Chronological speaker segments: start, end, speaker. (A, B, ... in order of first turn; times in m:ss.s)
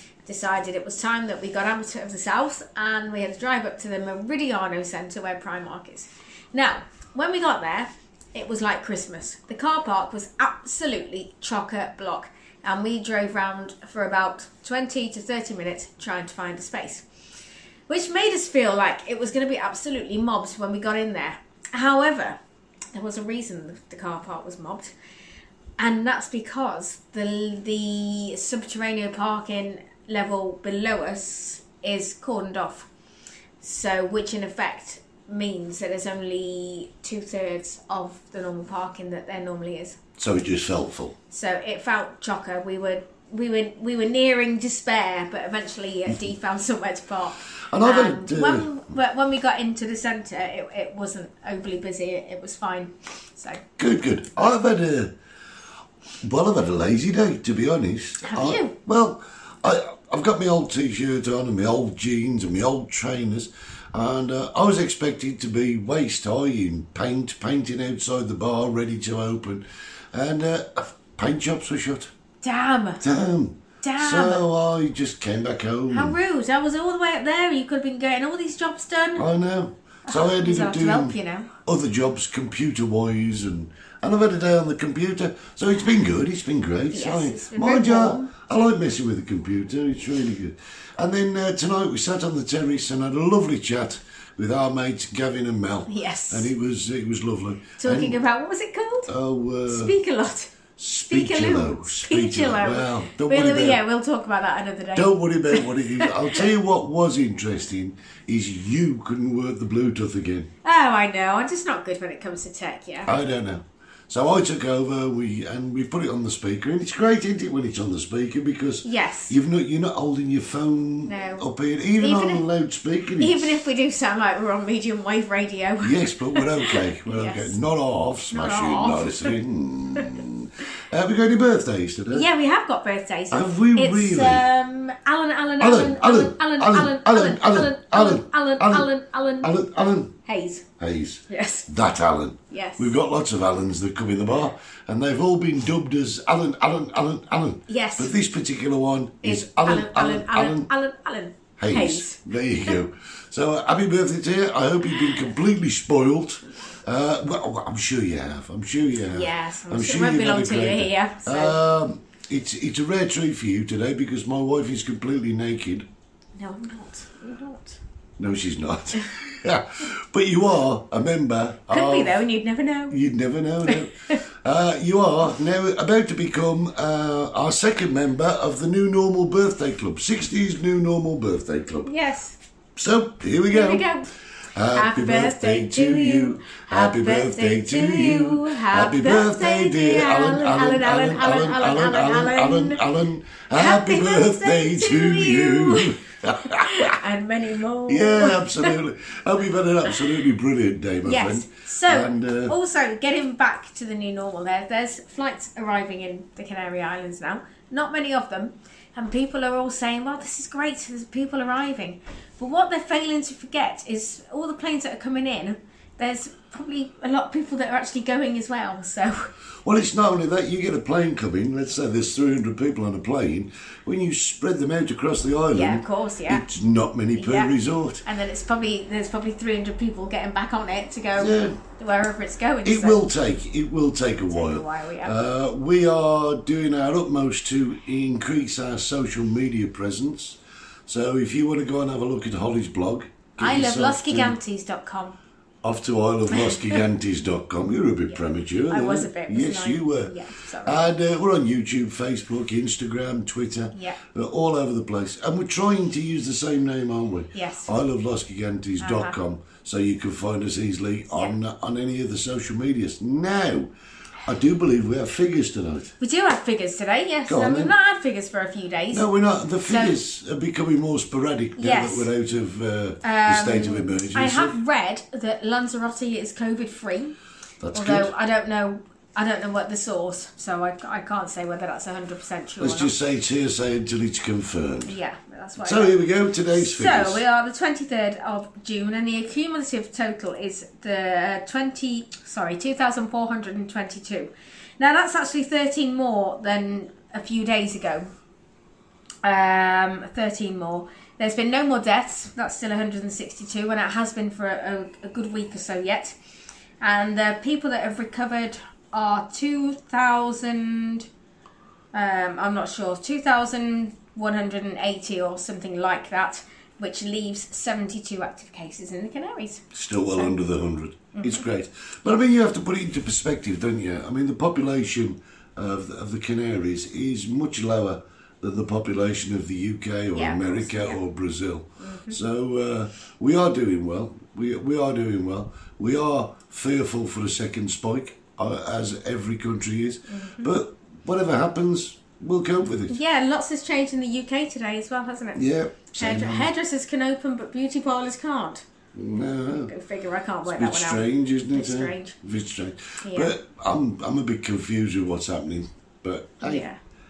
0:00.2-0:17.1 A
0:17.9-0:22.4 A
0:22.9-0:25.0 A
0:25.8-0:32.9 A
0:33.6-0:40.0 A
0:40.2-0:41.2 B
0:41.3-0:53.6 A
0:47.7-0:48.7 B
0:53.8-0:55.1 B
0:56.2-1:12.1 B
0:58.2-0:58.8 A
1:12.4-1:13.0 A
1:13.0-1:16.2 B
1:13.8-1:14.4 A
1:15.9-1:19.3 A
1:19.2-1:38.2 B
1:20.1-1:21.5 A
1:26.9-1:28.3 A
1:35.9-1:36.5 A
1:37.8-1:39.1 A
1:39.1-1:39.9 B
1:39.7-1:40.5 A
1:40.8-1:43.8 B
1:41.1-1:46.5 A
1:45.0-1:50.5 B
1:50.6-1:53.1 A
1:53.1-2:03.6 B
1:58.8-1:59.4 A
2:01.1-2:02.4 A
2:03.2-2:07.6 A
2:05.8-2:12.3 B
2:08.3-2:09.4 A
2:12.1-2:19.5 A
2:13.3-2:14.4 B
2:15.6-2:20.1 B
2:20.2-2:20.7 A
2:20.8-2:30.7 B
2:21.3-2:21.7 A
2:22.5-2:22.9 A
2:27.7-2:28.1 A
2:29.2-2:32.8 A
2:31.6-2:45.9 B
2:34.9-2:35.2 A
2:39.1-2:41.6 A
2:46.4-2:47.8 A
2:48.2-2:52.2 B
2:51.7-2:53.0 A
2:52.9-3:01.9 B
2:53.7-2:54.2 A
3:01.9-3:02.4 A
3:02.8-3:03.9 B
3:03.5-3:04.1 A
3:04.5-3:17.0 B
3:04.7-3:12.9 A
3:13.5-3:18.8 A
3:17.9-3:22.6 B
3:21.0-3:39.3 A
3:39.6-3:48.0 B
3:45.5-3:46.4 A
3:47.2-3:53.1 A
3:51.2-3:51.6 B
3:52.6-4:04.4 B
3:54.3-3:55.3 A
4:03.4-4:05.2 A
4:05.6-4:23.7 B
4:06.3-4:06.8 A
4:08.1-4:10.9 A
4:13.7-4:14.0 A
4:17.3-4:17.7 A
4:18.8-4:19.2 A
4:21.1-4:21.4 A
4:24.3-4:25.9 B
4:26.0-4:29.1 A
4:27.3-4:27.8 B
4:28.9-4:34.6 B
4:29.6-4:30.0 A
4:31.6-4:32.1 A
4:33.0-4:37.2 A
4:37.6-4:38.1 B
4:37.7-4:42.9 A
4:42.6-4:45.0 B
4:44.9-4:58.1 A
4:45.6-4:47.2 B
4:59.2-5:06.2 A
5:06.8-5:11.1 A
5:11.9-5:19.6 A
5:19.7-5:43.0 B
5:21.2-5:21.4 A
5:30.1-5:31.0 A
5:31.8-5:32.2 A
5:40.1-5:40.5 A
5:42.9-5:45.4 A
5:45.4-5:46.5 B
5:46.0-5:48.6 A
5:48.9-5:49.7 B
5:49.5-5:52.2 A
5:50.5-5:56.7 B
5:53.0-5:53.3 A
5:56.4-5:56.8 A